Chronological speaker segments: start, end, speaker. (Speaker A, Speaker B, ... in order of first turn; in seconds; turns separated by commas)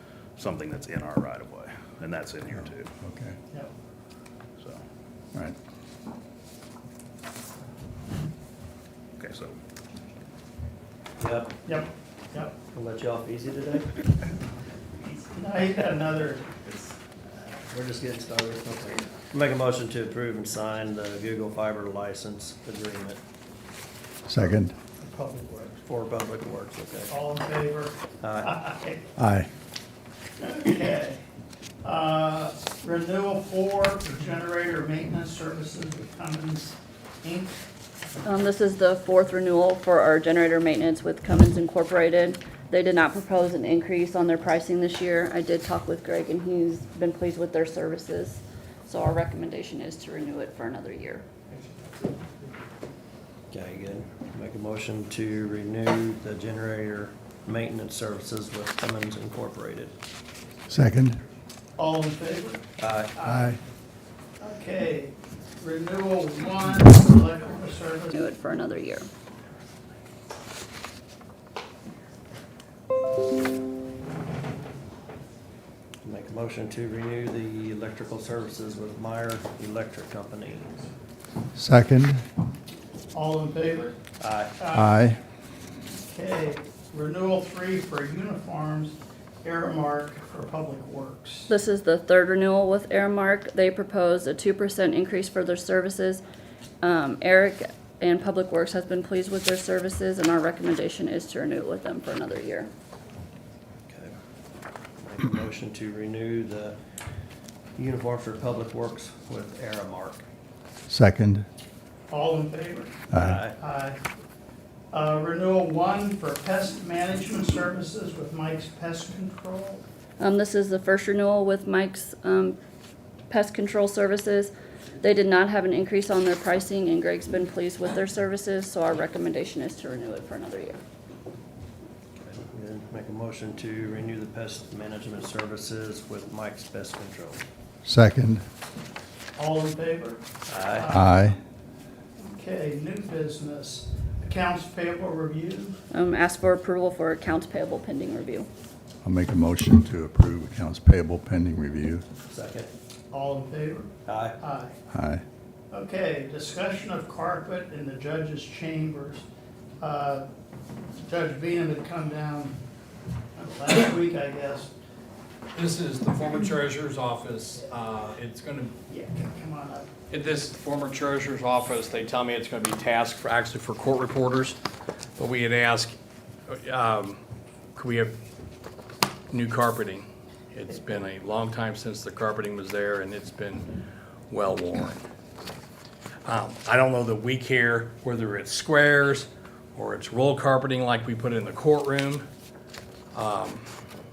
Speaker A: 0.4-2.9, Speaker B: 3.0-3.4, Speaker A: 9.2-9.6, Speaker C: 11.2-11.6, Speaker D: 11.6-12.6, Speaker C: 12.6-14.0, Speaker D: 15.3-16.4, Speaker C: 17.6-23.2, Speaker B: 24.2-24.7, Speaker D: 25.1-25.7, Speaker C: 25.8-27.1, Speaker D: 27.1-27.9, Speaker C: 28.2-28.5, Speaker D: 28.4-29.0, Speaker B: 29.2-29.5, Speaker D: 30.4-31.2, Speaker D: 32.0-36.8, Speaker E: 38.2-51.2, Speaker C: 53.5-59.9, Speaker B: 60.7-61.2, Speaker D: 61.9-62.6, Speaker C: 62.8-63.2, Speaker D: 63.1-63.5, Speaker B: 63.2-63.6, Speaker D: 64.4-68.2, Speaker E: 68.1-69.1, Speaker C: 76.0-80.7, Speaker B: 81.5-82.2, Speaker D: 83.1-83.9, Speaker C: 84.2-84.6, Speaker B: 84.7-85.2, Speaker D: 86.1-91.5, Speaker E: 91.5-96.2, Speaker E: 96.8-102.7, Speaker C: 103.9-104.2, Speaker C: 105.0-106.8, Speaker C: 107.8-110.2, Speaker B: 110.9-111.5, Speaker D: 112.1-114.0, Speaker B: 113.1-113.4, Speaker C: 113.2-113.6, Speaker D: 114.9-119.8, Speaker E: 120.2-122.6, Speaker E: 123.3-130.8, Speaker C: 132.2-137.4, Speaker B: 137.8-138.4, Speaker D: 139.4-140.1, Speaker C: 140.5-140.8, Speaker D: 140.7-141.1, Speaker B: 140.9-141.4, Speaker D: 142.3-143.8, Speaker D: 145.2-145.7, Speaker E: 145.9-148.5, Speaker B: 149.0-152.0, Speaker C: 152.3-152.7, Speaker D: 153.1-153.9, Speaker C: 154.1-154.4, Speaker D: 154.4-154.7, Speaker B: 154.9-155.2, Speaker D: 155.7-159.2, Speaker D: 159.8-160.2, Speaker D: 161.1-162.5, Speaker D: 163.3-164.7, Speaker F: 165.5-168.7, Speaker D: 168.9-169.8, Speaker F: 170.1-174.6, Speaker F: 175.2-175.9, Speaker F: 176.5-177.2, Speaker F: 177.7-178.1, Speaker F: 179.3-183.7, Speaker F: 184.3-185.1, Speaker F: 186.2-192.2, Speaker F: 193.1-193.6